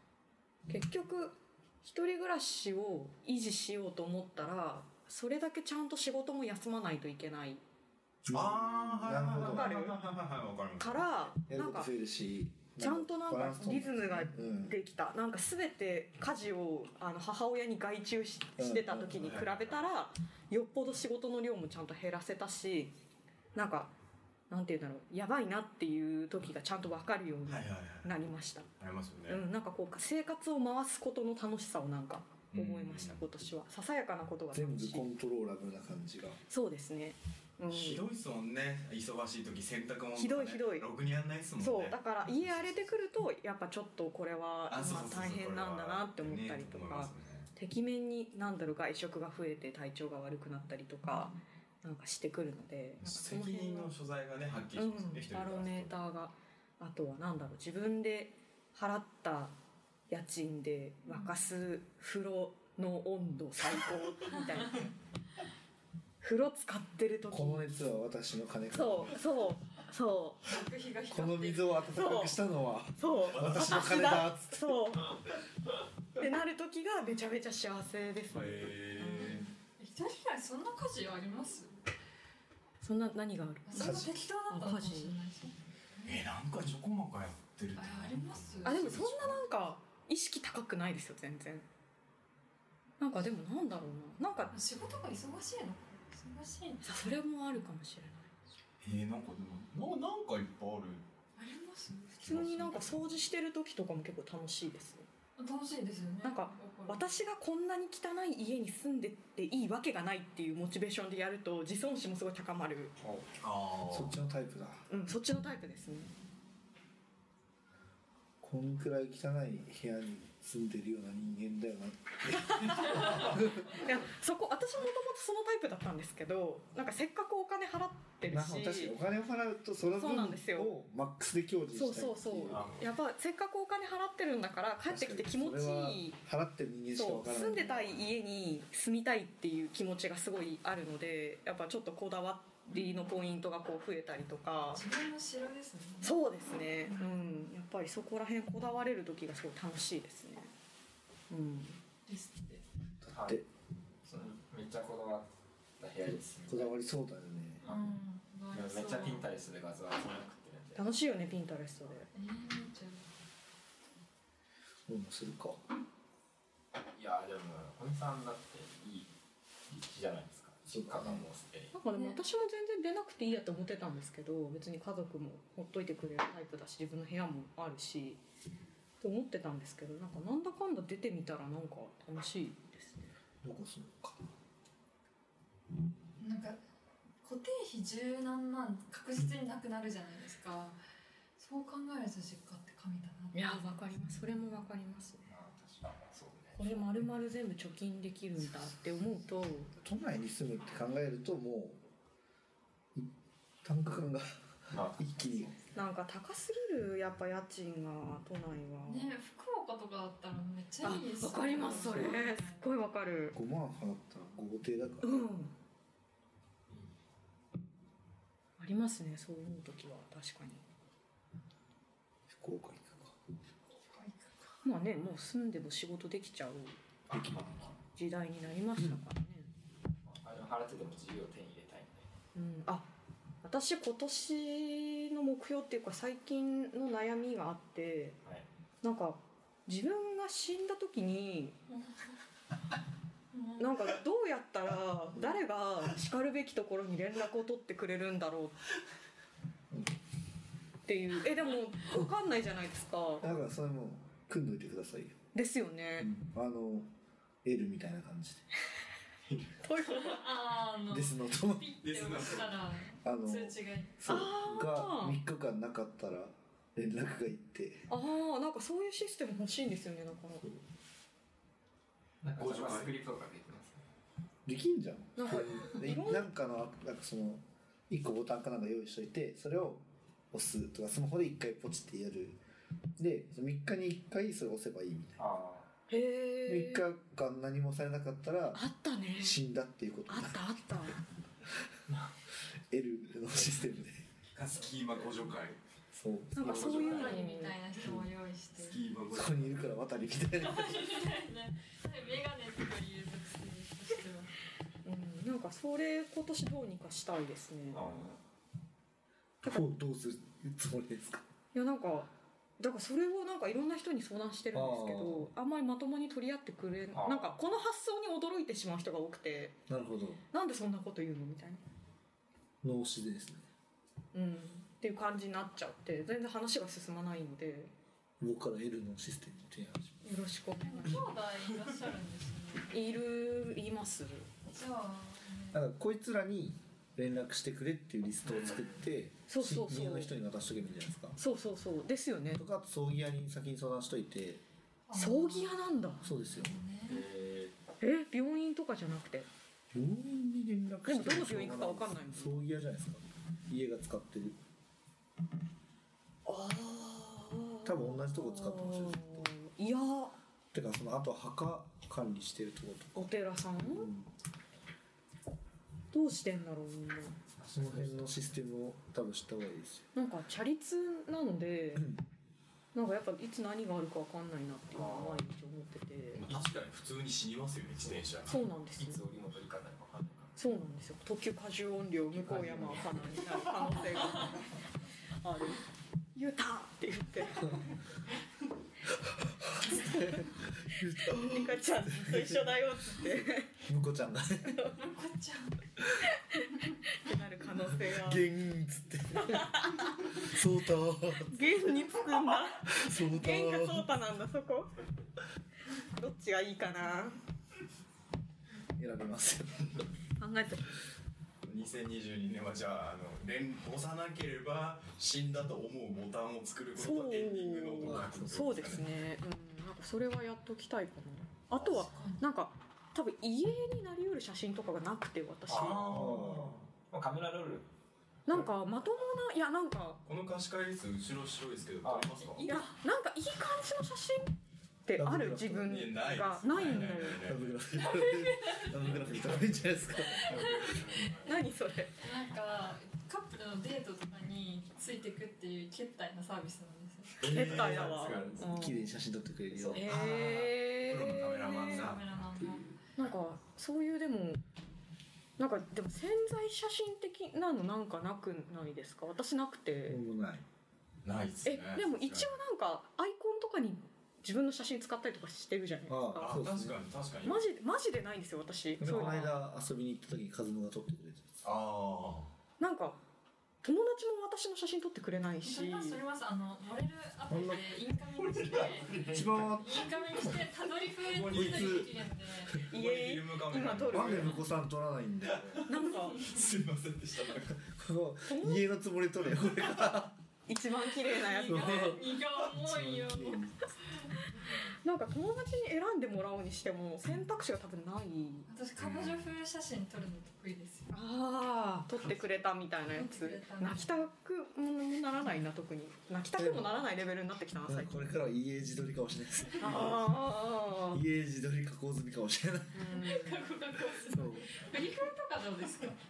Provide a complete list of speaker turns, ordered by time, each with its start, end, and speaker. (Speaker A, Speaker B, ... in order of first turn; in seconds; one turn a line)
Speaker A: 0.7-7.6
Speaker B: 8.2-9.7
Speaker C: 8.3-11.1
Speaker A: 9.3-10.0
Speaker A: 10.8-11.9
Speaker B: 11.5-14.8
Speaker A: 12.8-22.9
Speaker B: 18.6-19.4
Speaker C: 19.1-19.8
Speaker A: 23.5-23.9
Speaker A: 24.5-28.7
Speaker C: 27.4-28.2
Speaker C: 28.8-29.4
Speaker A: 29.3-35.0
Speaker C: 32.5-33.2
Speaker B: 34.5-36.4
Speaker A: 36.5-38.0
Speaker C: 37.7-43.0
Speaker A: 40.1-40.9
Speaker A: 41.6-53.9
Speaker C: 44.7-47.5
Speaker C: 53.0-55.9
Speaker A: 54.8-59.5
Speaker A: 60.1-64.9
Speaker D: 61.0-61.4
Speaker D: 64.3-64.9
Speaker A: 66.2-67.7
Speaker B: 67.3-69.2
Speaker A: 68.7-70.5
Speaker D: 70.4-71.8
Speaker B: 71.1-74.9
Speaker A: 71.9-72.4
Speaker A: 73.0-75.1
Speaker C: 73.2-74.2
Speaker A: 76.2-79.5
Speaker C: 78.3-79.5
Speaker D: 79.3-81.8
Speaker A: 82.8-85.2
Speaker D: 83.7-86.2
Speaker C: 86.0-89.4
Speaker D: 87.7-89.1
Speaker A: 88.6-91.7
Speaker A: 93.0-94.5
Speaker D: 94.5-97.2
Speaker A: 96.8-98.3
Speaker C: 98.8-101.0
Speaker D: 101.4-102.7
Speaker C: 102.2-103.1
Speaker A: 102.2-105.1
Speaker D: 105.4-107.0
Speaker A: 106.2-112.9
Speaker C: 113.4-114.1
Speaker B: 113.9-114.9
Speaker A: 114.9-116.1
Speaker B: 118.4-123.7
Speaker A: 122.4-128.9
Speaker B: 128.3-132.7
Speaker A: 129.9-130.7
Speaker A: 131.7-136.2
Speaker E: 132.5-132.9
Speaker B: 134.9-138.1
Speaker A: 136.9-144.9
Speaker D: 142.7-143.1
Speaker D: 144.7-146.2
Speaker A: 146.0-150.5
Speaker D: 146.9-147.2
Speaker A: 151.3-151.8
Speaker D: 152.1-152.6
Speaker B: 153.1-153.4
Speaker E: 153.1-153.4
Speaker E: 154.0-155.3
Speaker E: 155.8-156.8
Speaker B: 156.1-157.6
Speaker E: 157.6-157.9
Speaker D: 157.6-159.3
Speaker E: 158.5-160.9
Speaker A: 160.8-162.1
Speaker D: 162.1-163.0
Speaker B: 164.9-165.6
Speaker E: 166.9-169.1
Speaker E: 169.7-171.7
Speaker B: 170.7-171.2
Speaker A: 171.7-178.2
Speaker D: 171.8-172.2
Speaker A: 179.0-183.1
Speaker B: 183.4-184.2
Speaker D: 186.2-186.6
Speaker D: 187.2-190.8
Speaker D: 191.4-193.6
Speaker A: 193.3-195.2
Speaker E: 195.2-196.9
Speaker A: 196.6-199.7
Speaker B: 199.8-201.8
Speaker B: 203.6-205.5
Speaker E: 204.7-205.7
Speaker A: 205.7-209.1
Speaker D: 208.8-212.7
Speaker A: 210.8-213.4
Speaker B: 211.9-212.2
Speaker B: 213.3-215.3
Speaker A: 215.0-215.5
Speaker A: 218.6-220.6
Speaker B: 222.3-223.2
Speaker D: 223.9-224.5
Speaker A: 224.6-226.8
Speaker B: 227.1-227.7
Speaker E: 227.3-227.7
Speaker A: 227.9-229.5
Speaker E: 230.0-232.1
Speaker A: 232.3-232.9
Speaker A: 233.4-238.2
Speaker A: 238.8-241.6
Speaker D: 241.7-241.9
Speaker D: 243.3-243.8
Speaker A: 243.6-248.6
Speaker B: 249.7-250.0
Speaker A: 250.9-253.3
Speaker B: 253.2-255.2
Speaker A: 255.3-256.1
Speaker B: 256.0-256.9
Speaker B: 257.4-258.4
Speaker A: 259.6-260.3
Speaker D: 259.9-264.0
Speaker B: 260.9-261.7
Speaker C: 261.8-262.7
Speaker B: 263.0-267.9
Speaker A: 264.0-265.2
Speaker A: 267.9-270.5
Speaker E: 272.2-273.8
Speaker C: 272.4-272.9
Speaker B: 274.4-282.4
Speaker A: 275.1-276.3
Speaker B: 283.0-285.2
Speaker E: 285.2-285.7
Speaker A: 285.9-286.8
Speaker B: 286.4-288.6
Speaker A: 288.5-289.4
Speaker B: 289.1-290.4
Speaker A: 290.1-291.0
Speaker B: 292.7-294.0
Speaker C: 294.3-295.6
Speaker B: 295.9-296.5
Speaker A: 296.3-297.6
Speaker E: 296.4-297.2
Speaker D: 296.5-298.8
Speaker B: 297.8-298.1
Speaker C: 298.6-299.7
Speaker B: 299.1-300.9
Speaker D: 300.4-304.3
Speaker A: 304.8-308.0
Speaker E: 307.7-308.2
Speaker B: 309.4-311.2
Speaker A: 311.5-319.6
Speaker B: 314.5-315.3
Speaker E: 316.9-317.3
Speaker B: 319.7-320.2
Speaker A: 320.3-321.6
Speaker B: 322.6-323.4
Speaker A: 324.1-327.7
Speaker B: 328.2-330.2
Speaker A: 330.0-331.2
Speaker D: 330.6-332.9
Speaker A: 332.7-334.3
Speaker D: 334.5-335.6
Speaker B: 335.5-341.2
Speaker E: 338.2-338.8
Speaker A: 339.3-340.1
Speaker A: 341.2-342.4
Speaker B: 342.3-344.4
Speaker D: 344.9-345.6
Speaker A: 344.9-346.0
Speaker B: 346.0-346.6
Speaker D: 346.3-347.0
Speaker E: 346.9-347.5
Speaker A: 347.8-349.3
Speaker B: 349.7-354.4
Speaker A: 350.9-352.5
Speaker A: 356.2-360.1
Speaker B: 357.6-359.3
Speaker B: 360.5-364.1
Speaker A: 362.9-363.9
Speaker A: 365.9-367.1
Speaker E: 367.4-368.1
Speaker B: 367.5-369.9
Speaker A: 369.9-371.9
Speaker B: 371.7-372.0
Speaker A: 372.7-376.2
Speaker E: 374.7-375.3
Speaker C: 376.1-378.4
Speaker E: 377.8-380.4
Speaker A: 378.3-379.0
Speaker A: 380.4-384.4
Speaker B: 382.2-383.0
Speaker A: 385.2-385.6
Speaker A: 386.1-387.6
Speaker B: 388.9-393.1
Speaker A: 389.7-393.5
Speaker B: 393.6-394.7
Speaker A: 394.5-394.7
Speaker D: 394.7-395.6
Speaker A: 396.1-398.3
Speaker B: 397.7-399.6
Speaker A: 399.2-400.3
Speaker B: 400.1-401.6
Speaker A: 401.2-404.7
Speaker B: 402.6-403.9
Speaker A: 405.9-407.2
Speaker B: 408.8-409.8
Speaker A: 410.2-410.6
Speaker C: 411.4-418.9
Speaker A: 416.8-426.1
Speaker B: 417.8-418.6
Speaker D: 421.7-422.2
Speaker E: 425.5-426.1
Speaker C: 425.5-426.6
Speaker B: 425.9-426.6
Speaker E: 426.9-427.6
Speaker A: 428.3-430.0
Speaker C: 430.0-432.5
Speaker E: 431.8-432.2
Speaker D: 432.3-432.7
Speaker A: 432.4-437.3
Speaker B: 434.9-440.4
Speaker C: 435.6-437.6
Speaker D: 437.7-438.9
Speaker E: 438.8-441.3
Speaker D: 439.9-441.0
Speaker A: 441.2-441.9
Speaker D: 442.0-447.3
Speaker E: 447.2-448.8
Speaker C: 447.2-448.3
Speaker A: 447.3-448.8
Speaker B: 448.1-450.2
Speaker E: 449.5-450.4
Speaker A: 449.7-451.9
Speaker C: 450.0-452.5
Speaker D: 451.5-452.8
Speaker A: 453.0-454.4
Speaker A: 455.4-460.0
Speaker B: 459.9-460.4
Speaker C: 461.0-462.4
Speaker A: 461.4-466.3
Speaker B: 465.9-466.8
Speaker C: 466.2-467.4
Speaker A: 467.2-469.4
Speaker B: 468.8-471.2
Speaker C: 471.4-472.3
Speaker A: 472.6-473.0
Speaker A: 473.6-476.0
Speaker D: 475.4-482.6
Speaker B: 477.3-477.6
Speaker E: 478.4-479.5
Speaker B: 479.1-480.4
Speaker C: 481.1-481.9
Speaker B: 481.3-481.9
Speaker C: 482.6-484.4
Speaker A: 482.7-484.4
Speaker B: 483.9-485.6
Speaker C: 485.3-487.6
Speaker A: 485.7-486.2
Speaker B: 487.5-490.1
Speaker A: 488.2-488.7
Speaker A: 490.5-491.9
Speaker D: 491.0-494.3
Speaker B: 491.4-493.5
Speaker A: 494.8-498.5
Speaker D: 498.5-500.9
Speaker C: 498.8-499.3
Speaker A: 500.9-507.9
Speaker D: 502.9-504.1
Speaker B: 506.4-506.8
Speaker B: 507.6-510.2
Speaker A: 509.6-511.0
Speaker B: 510.9-513.0
Speaker A: 512.7-513.5
Speaker D: 512.9-516.0
Speaker B: 514.0-514.5